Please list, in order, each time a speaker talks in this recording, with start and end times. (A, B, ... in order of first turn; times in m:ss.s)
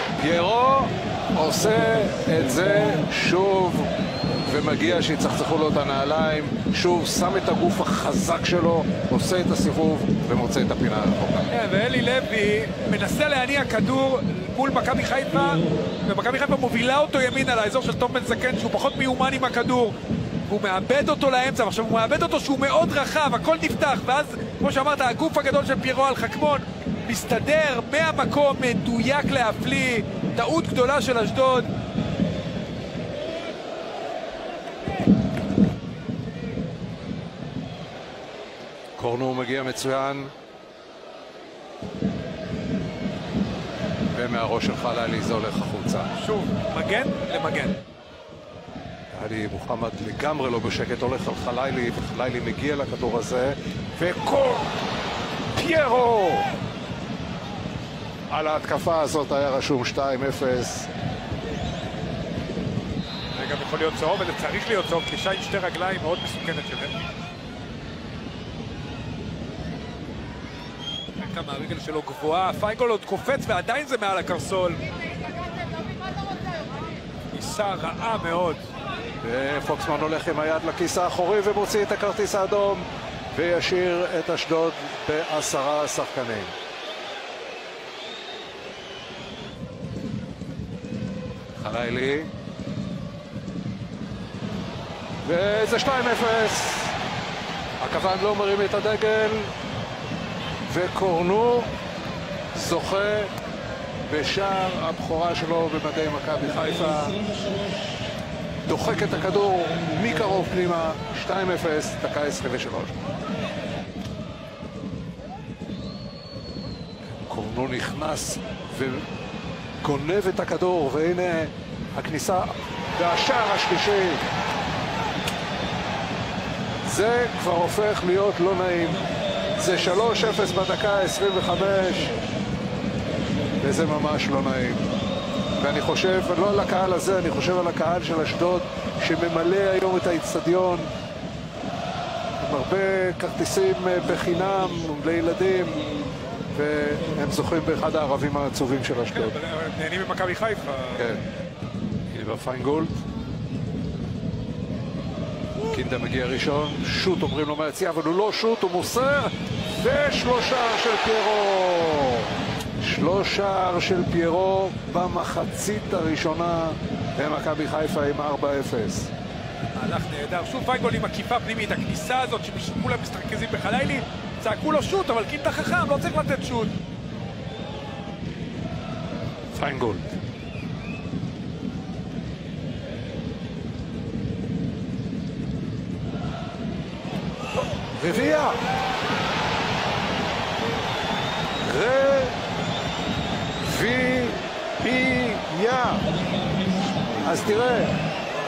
0:00.2-0:03.9 A
0:04.4-0:11.5 A
0:11.5-0:31.7 B
0:39.0-0:40.3 A
0:44.1-0:46.1 A
0:46.1-0:47.8 B
0:49.1-0:54.7 A
0:55.5-0:56.5 A
0:58.3-1:00.9 A
1:03.3-1:07.0 B
1:11.2-1:14.8 B
1:17.3-1:18.6 B
1:19.2-1:26.5 A
1:31.6-1:32.3 A
1:35.2-1:37.0 A
1:37.8-1:39.5 A
1:40.7-1:41.7 A
1:42.5-1:43.3 A
1:44.1-1:47.2 A
1:48.6-1:53.0 A
1:57.2-1:59.1 A
1:59.8-2:04.2 A
2:06.8-2:09.0 A
2:09.6-2:12.1 A
2:13.6-2:14.8 A
2:15.6-2:20.9 A
2:22.4-2:25.8 A
2:26.5-2:29.4 A
2:29.1-2:31.1 B
2:31.0-2:31.2 A
2:32.1-2:33.0 A
2:35.6-2:49.1 A
2:49.7-2:56.7 B
2:59.5-3:00.2 A
3:08.0-3:08.6 A
3:11.6-3:12.4 A
3:13.6-3:16.1 A
3:17.1-3:18.0 A